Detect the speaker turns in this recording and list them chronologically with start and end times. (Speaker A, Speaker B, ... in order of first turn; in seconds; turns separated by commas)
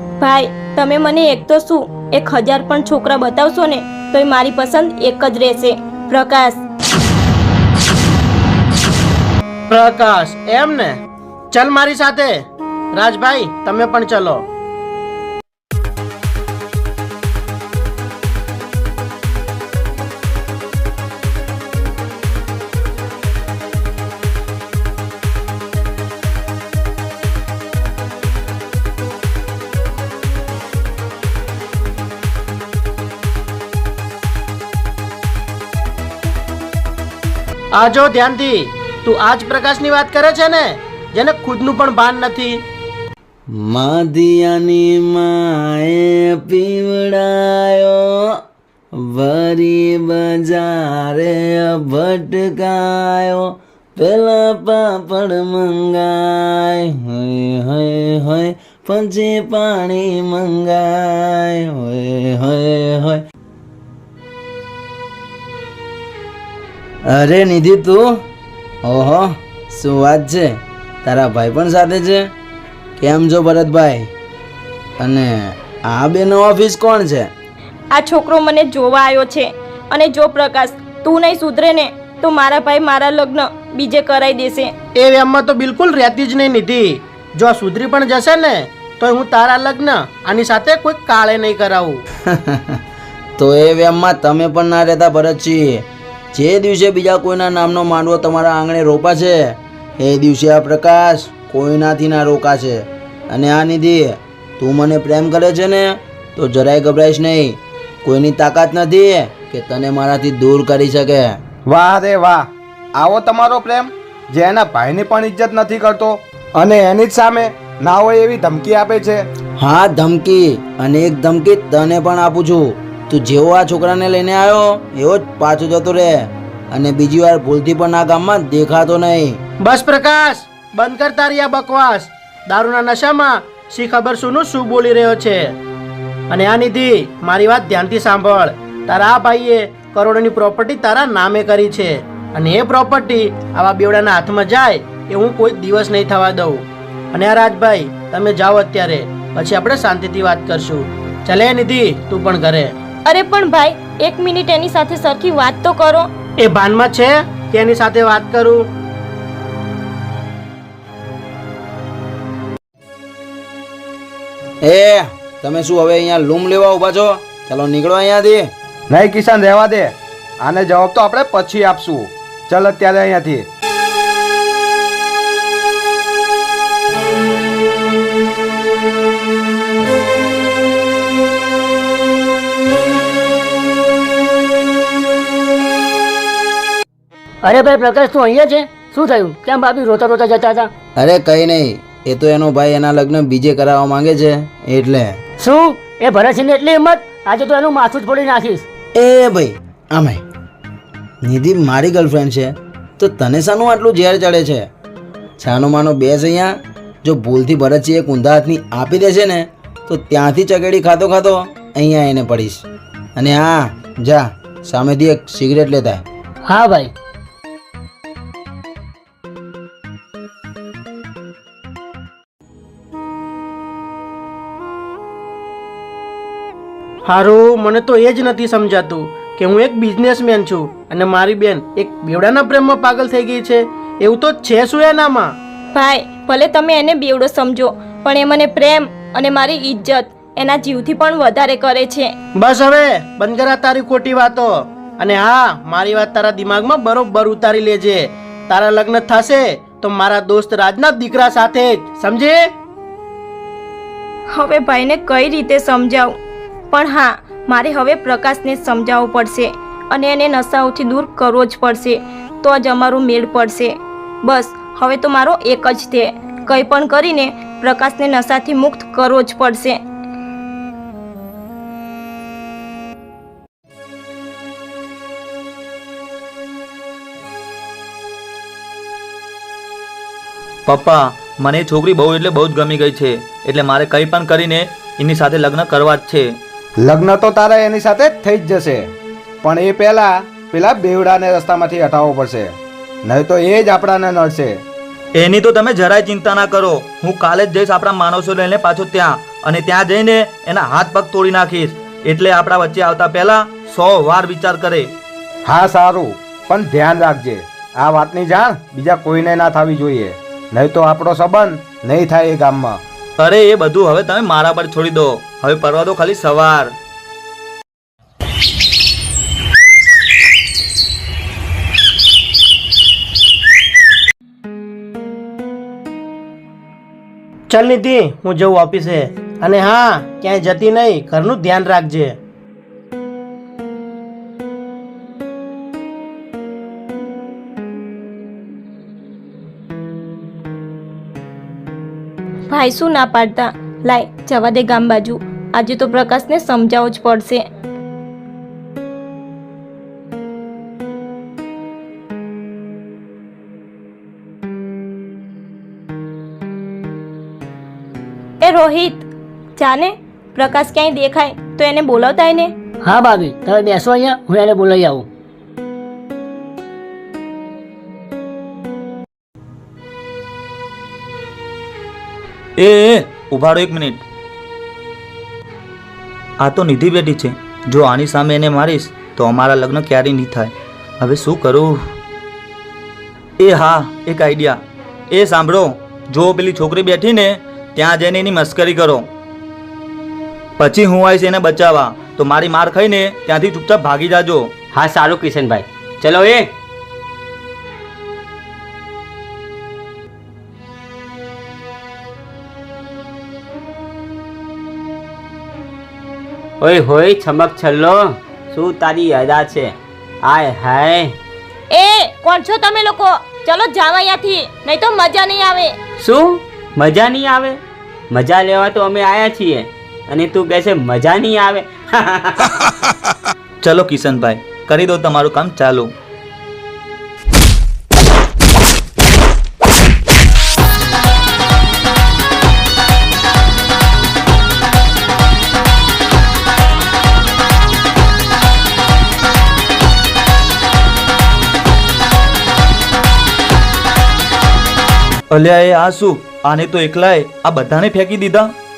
Speaker A: 0.2-6.6, Speaker B: 9.7-11.0, Speaker B: 11.5-12.4, Speaker B: 12.9-14.4, Speaker B: 37.7-42.6, Speaker C: 43.5-48.4, Speaker C: 48.9-63.2, Speaker C: 67.1-68.2, Speaker C: 68.8-72.3, Speaker C: 73.0-74.1, Speaker C: 75.0-77.3, Speaker A: 77.9-84.7, Speaker B: 85.0-92.0, Speaker C: 92.2-92.8, Speaker C: 93.4-111.4, Speaker D: 111.7-119.2, Speaker C: 119.6-129.4, Speaker B: 129.6-135.5, Speaker B: 136.3-152.7, Speaker A: 153.1-156.1, Speaker B: 156.4-158.7, Speaker C: 164.6-168.5, Speaker D: 168.9-173.5, Speaker E: 187.4-190.7, Speaker C: 190.9-195.2, Speaker E: 195.4-198.6, Speaker C: 198.9-200.2, Speaker C: 201.2-204.7, Speaker C: 205.4-212.6, Speaker C: 213.2-216.0, Speaker E: 216.5-216.9, Speaker B: 227.1-235.3, Speaker A: 235.7-242.1, Speaker B: 242.3-252.5, Speaker A: 254.3-256.2, Speaker A: 256.7-269.8, Speaker F: 280.6-286.3, Speaker D: 286.8-288.9, Speaker D: 289.4-294.6, Speaker F: 295.2-304.9, Speaker D: 305.4-312.8, Speaker F: 313.2-316.7, Speaker B: 327.5-332.2, Speaker A: 342.5-347.4, Speaker A: 358.4-362.5, Speaker E: 362.8-365.1, Speaker F: 372.6-374.0, Speaker F: 376.4-381.8, Speaker F: 383.4-384.6, Speaker F: 385.1-389.1, Speaker F: 390.6-394.5, Speaker G: 394.7-396.5, Speaker G: 406.6-411.1, Speaker A: 411.7-415.7, Speaker G: 416.0-417.6, Speaker G: 418.1-422.5, Speaker F: 423.6-425.9, Speaker F: 445.3-448.5